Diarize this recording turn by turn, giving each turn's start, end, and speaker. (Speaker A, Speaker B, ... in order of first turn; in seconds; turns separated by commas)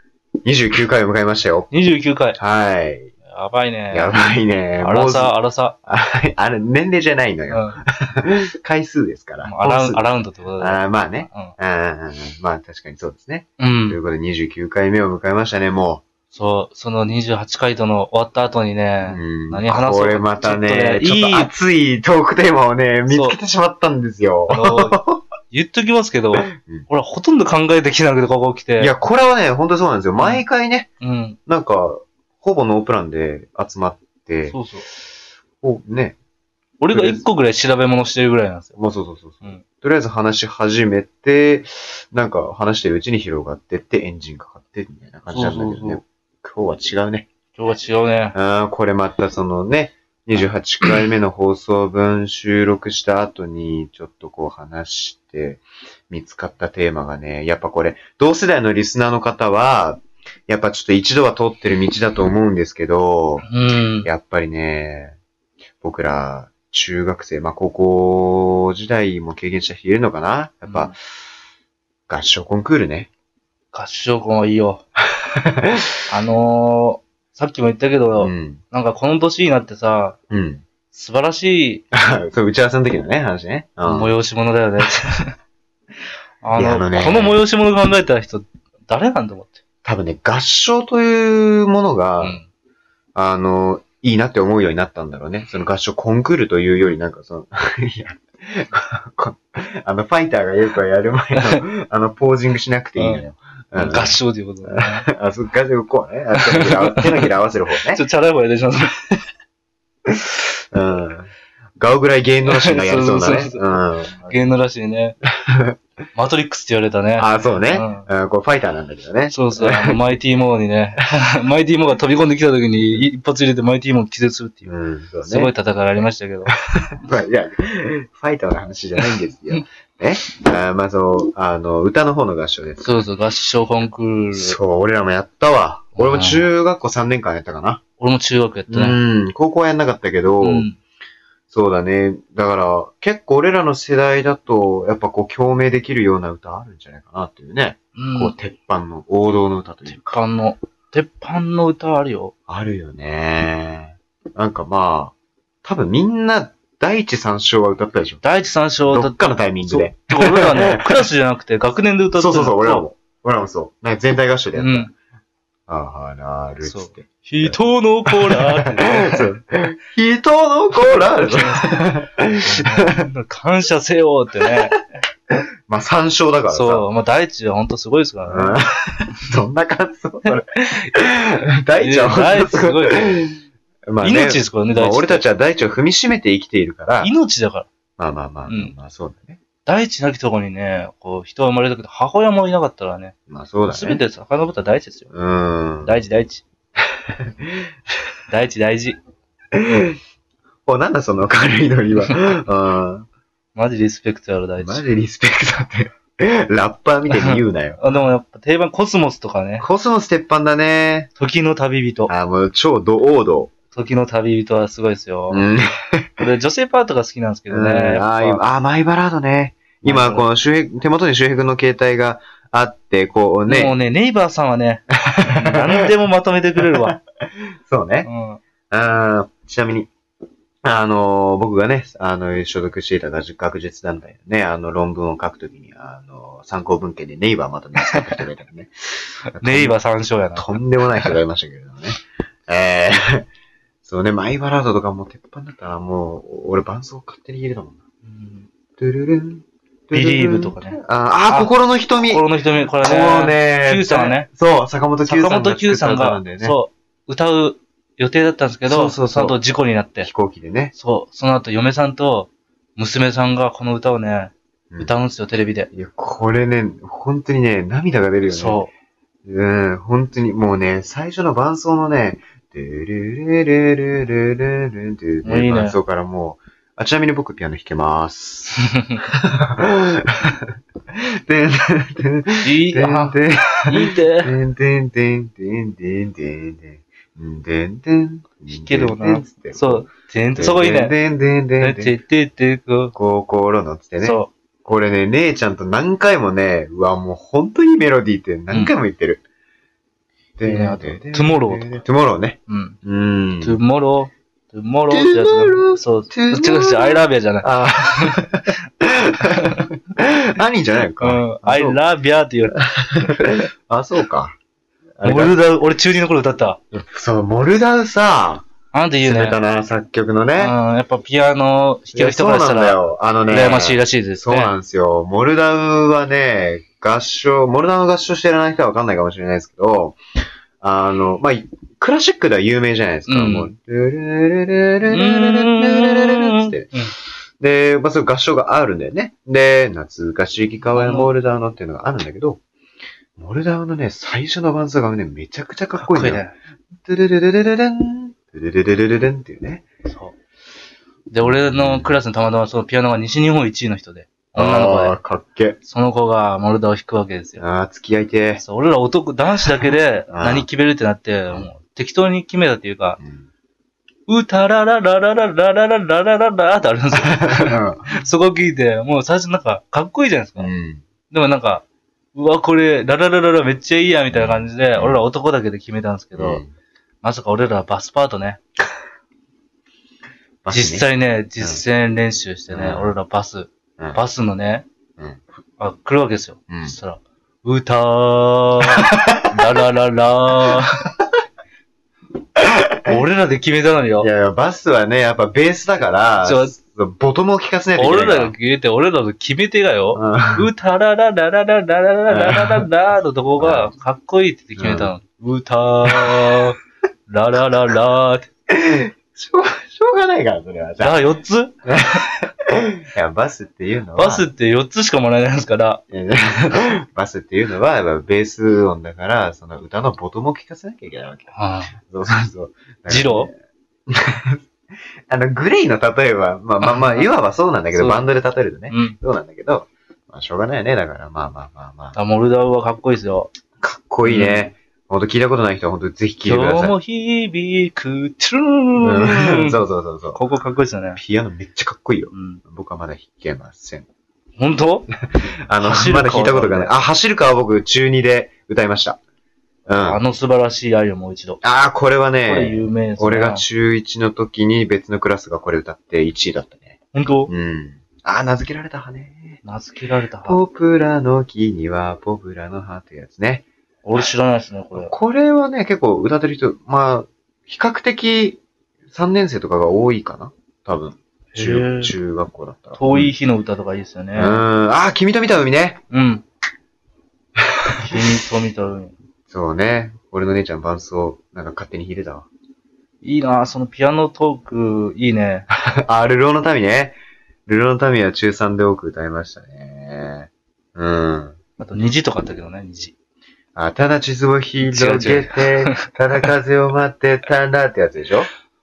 Speaker A: 0.4-1.7, Speaker B: 1.7-2.4, Speaker A: 2.4-3.1, Speaker B: 3.3-4.2, Speaker A: 3.9-10.1, Speaker B: 4.8-5.8, Speaker B: 7.5-7.8, Speaker B: 9.4-11.6, Speaker A: 10.6-16.0, Speaker B: 13.6-14.0, Speaker B: 16.3-21.5, Speaker A: 19.1-25.2, Speaker B: 23.1-23.4, Speaker B: 24.5-25.0, Speaker B: 25.5-28.9, Speaker A: 26.4-26.9, Speaker A: 28.8-30.9, Speaker B: 30.2-30.4, Speaker B: 31.0-31.4, Speaker A: 31.5-34.6, Speaker B: 34.5-34.9, Speaker A: 35.6-36.2, Speaker B: 36.8-38.8, Speaker A: 36.9-37.2, Speaker A: 38.8-47.3, Speaker B: 45.3-46.0, Speaker B: 47.6-48.4, Speaker A: 48.4-63.5, Speaker B: 63.5-64.1, Speaker A: 64.0-65.2, Speaker A: 65.8-71.0, Speaker B: 70.7-70.9, Speaker A: 72.1-73.1, Speaker B: 73.7-74.8, Speaker A: 75.1-76.0, Speaker B: 76.1-80.2, Speaker A: 78.2-78.6, Speaker A: 80.3-80.6, Speaker B: 80.9-81.8, Speaker A: 81.9-84.2, Speaker B: 83.8-85.3, Speaker B: 86.4-89.6, Speaker A: 86.5-87.4, Speaker A: 89.8-92.4, Speaker B: 92.2-92.5, Speaker A: 93.2-108.0, Speaker B: 103.0-103.2, Speaker B: 103.8-105.1, Speaker B: 106.4-107.3, Speaker B: 107.9-109.2, Speaker A: 110.1-114.6, Speaker B: 112.5-115.2, Speaker A: 115.2-115.8, Speaker B: 116.2-118.1, Speaker A: 117.2-120.0, Speaker B: 119.3-124.7, Speaker A: 124.7-125.5, Speaker B: 125.2-126.5, Speaker A: 126.8-133.0, Speaker B: 129.0-129.6, Speaker B: 132.8-134.6, Speaker A: 134.3-137.8, Speaker B: 136.0-136.5, Speaker B: 138.0-139.0, Speaker A: 138.7-140.7, Speaker B: 140.4-140.8, Speaker A: 141.5-150.2, Speaker B: 147.9-148.3, Speaker B: 149.9-152.3, Speaker A: 152.5-158.2, Speaker B: 158.2-162.8, Speaker A: 158.9-161.1, Speaker A: 162.2-164.9, Speaker B: 164.6-164.9, Speaker A: 165.7-173.1, Speaker B: 166.6-169.3, Speaker B: 170.8-174.8, Speaker A: 175.7-176.9, Speaker B: 176.5-178.6, Speaker A: 178.2-187.1, Speaker B: 181.8-183.2, Speaker B: 184.0-185.3, Speaker B: 187.0-187.7, Speaker A: 188.0-189.4, Speaker B: 188.5-188.7, Speaker B: 189.7-193.2, Speaker A: 193.3-194.0, Speaker B: 193.7-195.1, Speaker A: 195.1-196.0, Speaker B: 195.8-196.4, Speaker A: 197.1-197.7, Speaker B: 198.3-199.0, Speaker A: 199.5-200.0, Speaker A: 200.7-203.1, Speaker B: 203.6-204.8, Speaker A: 204.6-207.8, Speaker B: 207.1-209.7, Speaker A: 209.6-211.1, Speaker B: 211.2-212.1, Speaker A: 212.1-213.5, Speaker B: 213.7-215.5, Speaker A: 215.3-216.2, Speaker B: 216.2-218.4, Speaker A: 217.5-223.8, Speaker B: 219.8-220.3, Speaker B: 223.5-226.9, Speaker A: 225.1-225.5, Speaker A: 226.6-227.0, Speaker A: 227.7-228.1, Speaker B: 228.1-228.4, Speaker A: 228.7-229.9, Speaker A: 230.6-239.8, Speaker B: 237.8-238.2, Speaker B: 239.4-241.2, Speaker A: 240.4-243.3, Speaker A: 243.8-247.8, Speaker B: 248.1-248.5, Speaker A: 248.8-252.3, Speaker B: 249.9-254.3, Speaker A: 252.8-256.6, Speaker B: 255.1-260.1, Speaker A: 258.7-259.4, Speaker A: 260.0-260.7, Speaker B: 260.7-265.7, Speaker A: 265.7-268.6, Speaker B: 268.2-268.7, Speaker A: 269.2-292.0, Speaker B: 275.2-275.8, Speaker B: 282.4-283.2, Speaker B: 283.7-284.3, Speaker B: 288.5-290.9, Speaker B: 291.6-292.9, Speaker A: 292.9-299.2, Speaker B: 294.0-294.3, Speaker B: 298.5-298.7, Speaker A: 300.4-303.6, Speaker B: 300.4-301.8, Speaker B: 302.5-302.8, Speaker B: 303.4-308.2, Speaker A: 304.9-311.8, Speaker B: 309.2-309.7, Speaker B: 311.0-313.5, Speaker A: 312.5-314.4, Speaker A: 315.0-315.4, Speaker B: 315.0-316.6, Speaker A: 316.7-318.5, Speaker B: 318.7-319.4, Speaker A: 319.0-320.6, Speaker B: 320.4-324.5, Speaker A: 321.9-330.0, Speaker A: 330.6-336.8, Speaker B: 333.1-333.5, Speaker B: 334.9-336.9, Speaker A: 337.4-342.4, Speaker B: 340.6-341.1, Speaker A: 343.2-346.3, Speaker B: 345.8-346.4, Speaker A: 346.8-349.7, Speaker B: 349.9-350.1, Speaker B: 351.1-355.0, Speaker A: 351.2-352.0, Speaker A: 354.4-355.6, Speaker B: 355.6-357.4, Speaker A: 357.4-358.4, Speaker B: 358.4-363.0, Speaker A: 359.5-360.5, Speaker A: 363.0-363.3, Speaker B: 364.1-370.5, Speaker A: 366.9-368.0, Speaker A: 370.4-370.8, Speaker B: 371.1-376.4, Speaker A: 374.1-375.0, Speaker A: 376.1-376.5, Speaker B: 377.0-378.4, Speaker A: 380.4-380.9, Speaker B: 380.5-384.6, Speaker A: 382.5-383.0, Speaker B: 385.6-390.9, Speaker A: 386.5-386.8, Speaker A: 388.8-389.4, Speaker A: 392.4-393.0, Speaker B: 392.9-394.1, Speaker A: 394.0-398.3, Speaker B: 396.2-396.6, Speaker B: 397.8-408.3, Speaker A: 399.9-400.5, Speaker A: 402.1-402.7, Speaker A: 403.4-403.7, Speaker A: 404.6-404.9, Speaker A: 405.9-406.4, Speaker A: 408.5-411.0, Speaker B: 410.8-411.6, Speaker A: 411.6-414.3, Speaker B: 414.0-415.8, Speaker A: 415.9-423.3, Speaker B: 421.3-421.8, Speaker B: 422.9-423.3, Speaker A: 423.9-424.4, Speaker A: 425.1-432.0, Speaker B: 426.6-427.1, Speaker B: 427.7-428.1, Speaker B: 428.7-429.0, Speaker B: 431.9-433.3, Speaker A: 433.6-436.8, Speaker B: 434.0-434.5, Speaker B: 436.2-439.6, Speaker A: 438.8-440.2, Speaker B: 440.1-441.0, Speaker A: 440.9-443.9, Speaker B: 442.1-442.4, Speaker B: 444.4-444.9, Speaker A: 445.1-449.0, Speaker B: 445.6-446.7, Speaker A: 449.7-450.0, Speaker B: 449.8-451.4, Speaker A: 451.4-456.8, Speaker B: 452.2-453.4, Speaker B: 456.9-457.3, Speaker A: 457.3-459.4, Speaker B: 459.4-460.4, Speaker A: 460.2-463.5, Speaker B: 463.8-464.9, Speaker A: 464.8-473.1, Speaker B: 471.3-471.9, Speaker B: 472.8-474.5, Speaker A: 474.1-475.8, Speaker B: 475.9-476.2, Speaker B: 477.9-478.9, Speaker A: 479.3-482.3, Speaker B: 483.0-485.5, Speaker A: 485.6-491.4, Speaker B: 491.6-492.9, Speaker A: 493.6-498.3, Speaker B: 494.6-495.9